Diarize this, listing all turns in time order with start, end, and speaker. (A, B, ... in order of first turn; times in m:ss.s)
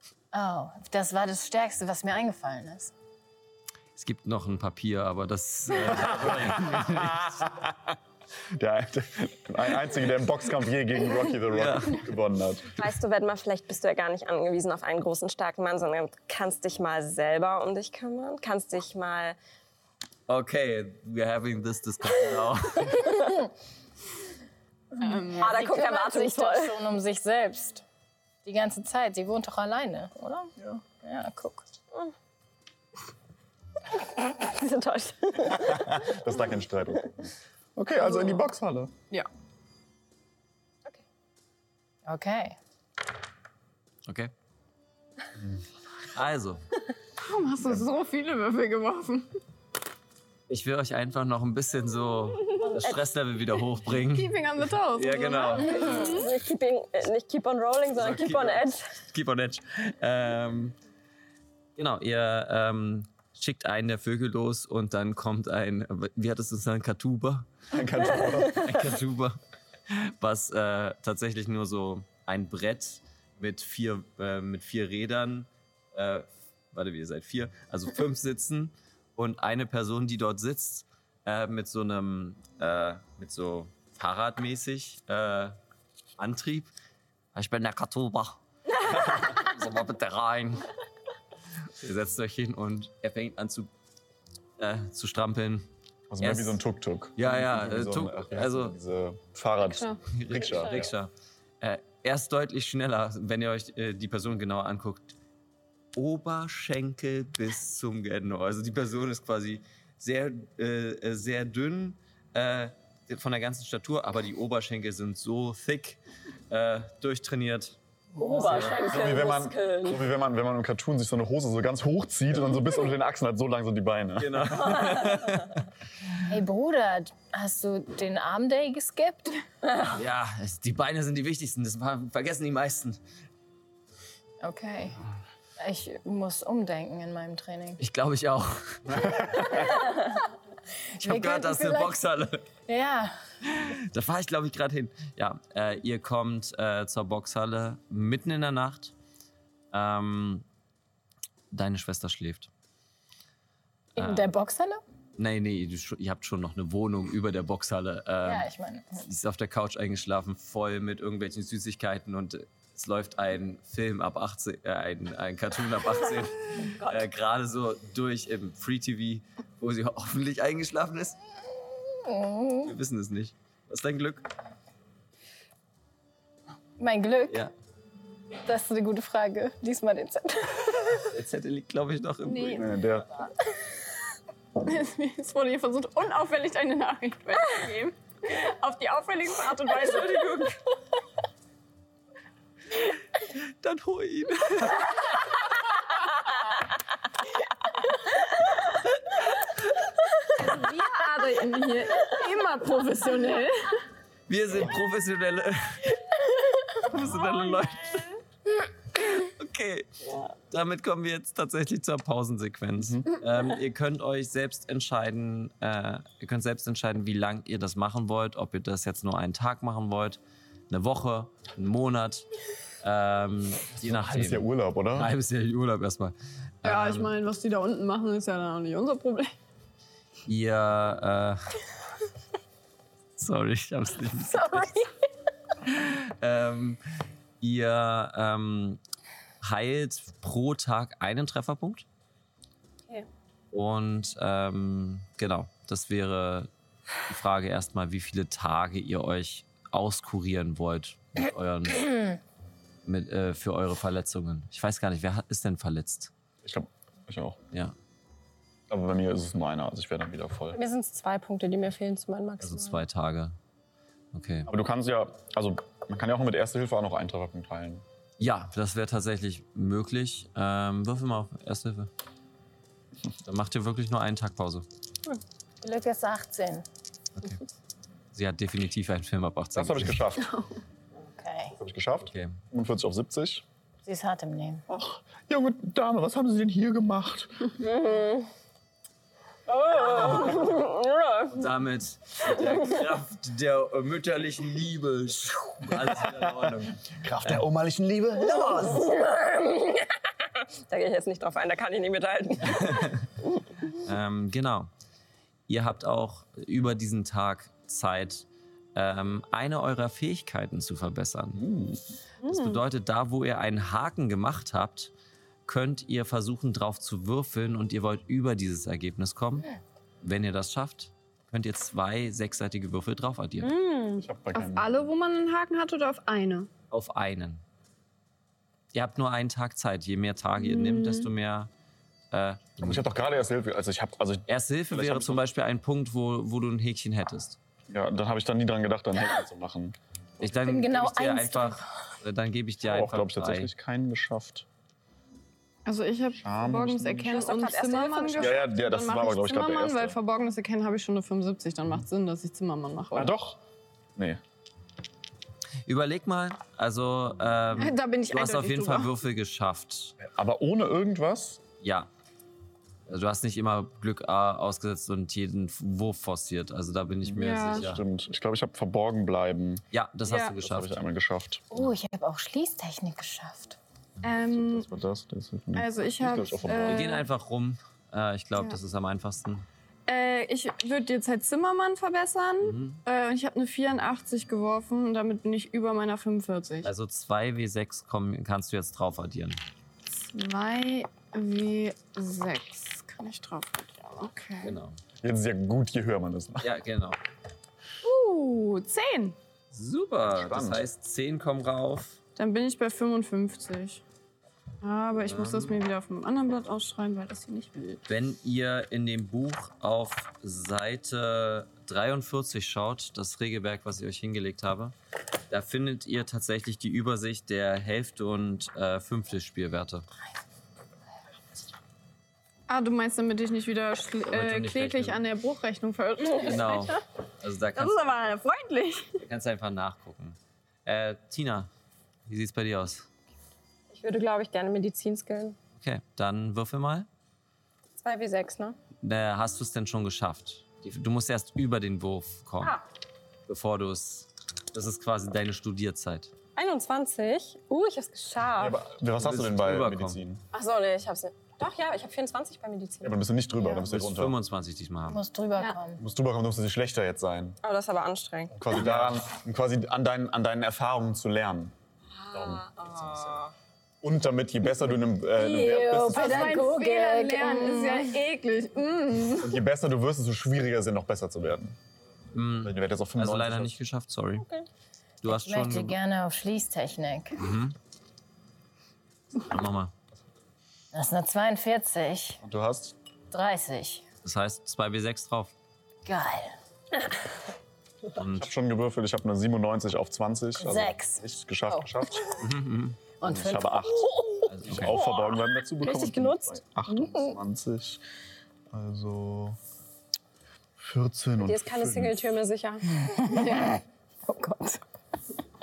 0:00.3-0:02.9 A
0:04.0-0:07.5 B
0:05.9-0:08.0 C
0:08.5-0:12.8 C
0:11.5-0:12.1 B
0:12.8-0:19.4 D
0:20.3-0:23.3 B
0:25.0-0:27.8 A
0:25.0-0:25.6 E
0:25.4-0:26.8 D
0:28.4-0:31.6 A
0:30.6-0:30.8 C
0:33.9-0:36.1 D
0:35.5-0:38.9 C
0:42.0-0:42.6 A
0:46.1-0:46.6 B
0:47.2-0:49.3 E
0:50.5-0:54.4 B
0:53.9-0:56.3 E
0:54.9-0:56.1 B
0:55.5-0:58.8 D
0:57.9-1:00.8 B
1:01.8-1:07.5 B
1:07.7-1:08.8 C
1:08.4-1:09.4 B
1:09.9-1:25.6 B
1:26.2-1:26.7 B
1:27.3-1:30.7 B
1:31.8-1:33.7 B
1:34.6-1:35.7 B
1:36.1-1:40.9 C
1:36.2-1:36.6 B
1:37.2-1:38.8 B
1:39.6-1:40.0 E
1:40.1-1:45.1 B
1:45.9-1:56.0 B
1:56.5-1:57.8 B
1:58.2-2:00.0 D
1:58.3-2:05.0 C
1:58.4-1:58.8 B
2:04.2-2:05.6 B
2:06.2-2:09.4 A
2:09.9-2:13.0 B
2:14.4-2:15.0 A
2:15.6-2:17.8 A
2:17.8-2:19.8 B
2:19.0-2:19.2 C
2:21.0-2:22.0 A
2:21.0-2:22.4 B
2:22.6-2:23.1 A
2:23.5-2:28.9 B
2:29.7-2:30.4 B
2:31.5-2:32.5 B
2:33.9-2:34.8 A
2:34.0-2:34.3 B
2:35.2-2:51.2 B
2:38.2-2:39.0 A
2:52.0-2:52.7 A
2:52.6-2:54.3 B
2:56.8-2:57.5 A
2:58.4-3:00.9 A
3:01.0-3:02.7 B
3:02.2-3:02.7 E
3:02.5-3:03.1 C
3:04.6-3:10.6 E
3:13.2-3:15.4 B
3:19.2-3:19.5 B
3:20.3-3:23.8 E
3:24.3-3:25.9 B
3:26.8-3:28.1 B
3:28.9-3:30.0 B
3:30.5-3:40.2 B
3:32.8-3:33.0 C
3:40.7-3:42.3 B
3:42.8-3:47.1 B
3:43.8-3:45.1 C
3:46.6-3:49.3 E
3:50.2-3:51.4 B
3:53.2-3:54.9 B
3:55.6-3:56.8 B
3:57.4-3:58.8 B
3:59.4-4:01.8 B
4:03.5-4:06.5 B
4:07.1-4:12.2 B
4:12.8-4:16.1 B
4:16.4-4:17.4 C
4:18.7-4:20.6 C
4:20.5-4:22.8 D
4:22.4-4:23.4 B
4:24.1-4:24.5 B
4:24.5-4:27.8 C
4:28.2-4:31.9 B
4:33.2-4:34.6 B
4:35.6-4:36.6 A
4:38.1-4:40.0 B
4:39.5-4:40.4 C
4:40.2-4:40.5 E
4:41.0-4:41.6 A
4:41.6-4:43.4 C
4:42.1-4:42.4 B
4:43.8-4:44.6 A
4:44.7-4:47.6 C
4:47.6-4:48.3 D
4:49.5-4:51.4 D
4:51.3-4:57.4 B
4:55.7-4:58.9 C
4:58.2-5:02.9 D
5:02.7-5:03.0 B
5:03.8-5:04.7 B
5:05.5-5:11.4 B
5:11.3-5:12.0 C
5:12.2-5:14.9 B
5:12.3-5:12.5 E
5:15.4-5:19.5 B
5:20.0-5:23.5 B
5:23.4-5:23.9 D
5:23.9-5:26.5 E
5:24.0-5:24.8 C
5:26.7-5:27.4 B
5:28.7-5:31.5 B
5:30.4-5:31.1 E
5:32.1-5:32.8 B
5:32.6-5:35.2 C
5:34.3-5:37.4 B
5:37.7-5:39.8 C
5:40.2-5:43.5 B
5:40.2-5:41.6 A
5:42.6-5:44.4 C
5:45.6-5:53.2 E
5:46.2-5:47.2 C
5:47.1-5:48.5 D
5:48.2-5:50.0 C
5:53.0-5:53.4 C
5:54.0-5:54.2 C
5:55.6-6:00.0 B
5:57.5-5:58.9 E
6:00.0-6:01.4 C
6:01.6-6:01.9 B
6:02.9-6:07.8 B
6:07.0-6:09.6 C
6:07.2-6:07.6 E
6:09.7-6:10.8 B
6:10.1-6:10.3 E
6:10.4-6:11.4 C
6:11.5-6:13.6 A
6:14.0-6:14.7 E
6:14.3-6:17.0 C
6:15.5-6:17.0 E
6:16.6-6:19.4 B
6:19.9-6:26.7 E
6:22.4-6:22.8 B
6:26.6-6:29.4 B
6:29.9-6:34.5 E
6:34.4-6:34.8 B
6:35.0-6:36.5 C
6:36.4-6:37.0 B
6:37.8-6:39.2 E
6:39.5-6:42.0 B
6:40.1-6:40.7 C
6:42.2-6:43.8 E
6:44.6-6:47.8 E
6:45.0-6:45.6 B
6:47.9-6:54.7 B
6:55.3-6:59.8 B
7:02.5-7:06.8 E
7:04.1-7:05.0 B
7:06.1-7:08.1 B
7:07.5-7:09.0 E
7:09.0-7:11.5 B
7:12.1-7:12.9 B
7:13.7-7:15.4 D
7:15.6-7:16.9 B
7:17.8-7:18.6 D
7:18.8-7:22.6 B
7:23.3-7:26.1 B
7:26.3-7:28.6 D
7:28.4-7:30.2 C
7:29.0-7:30.0 B
7:30.3-7:33.0 D
7:32.8-7:34.2 C
7:33.6-7:35.0 B
7:34.9-7:35.8 A
7:35.8-7:37.4 C
7:37.4-7:38.5 D
7:38.3-7:41.5 C
7:38.5-7:39.0 B
7:41.9-7:43.3 D
7:42.1-7:43.2 C
7:43.8-7:46.4 C
7:45.2-7:48.0 A
7:45.2-7:49.3 E
7:49.2-7:51.6 C
7:52.1-7:54.3 B
7:52.4-7:53.6 C
7:55.0-7:55.7 B
7:55.0-7:57.2 A
7:57.2-7:57.5 B
7:59.2-7:59.7 B
8:00.7-8:02.2 A
8:02.2-8:02.8 C
8:03.1-8:03.8 A
8:04.0-8:05.3 B
8:05.8-8:06.3 A
8:08.0-8:08.3 B
8:08.0-8:12.2 C
8:10.4-8:11.7 A
8:12.2-8:12.8 B
8:13.0-8:13.9 A
8:13.0-8:17.8 C
8:14.3-8:14.8 B
8:14.6-8:17.2 D
8:18.5-8:19.4 C
8:20.6-8:22.1 C
8:21.2-8:23.0 D
8:22.9-8:24.6 A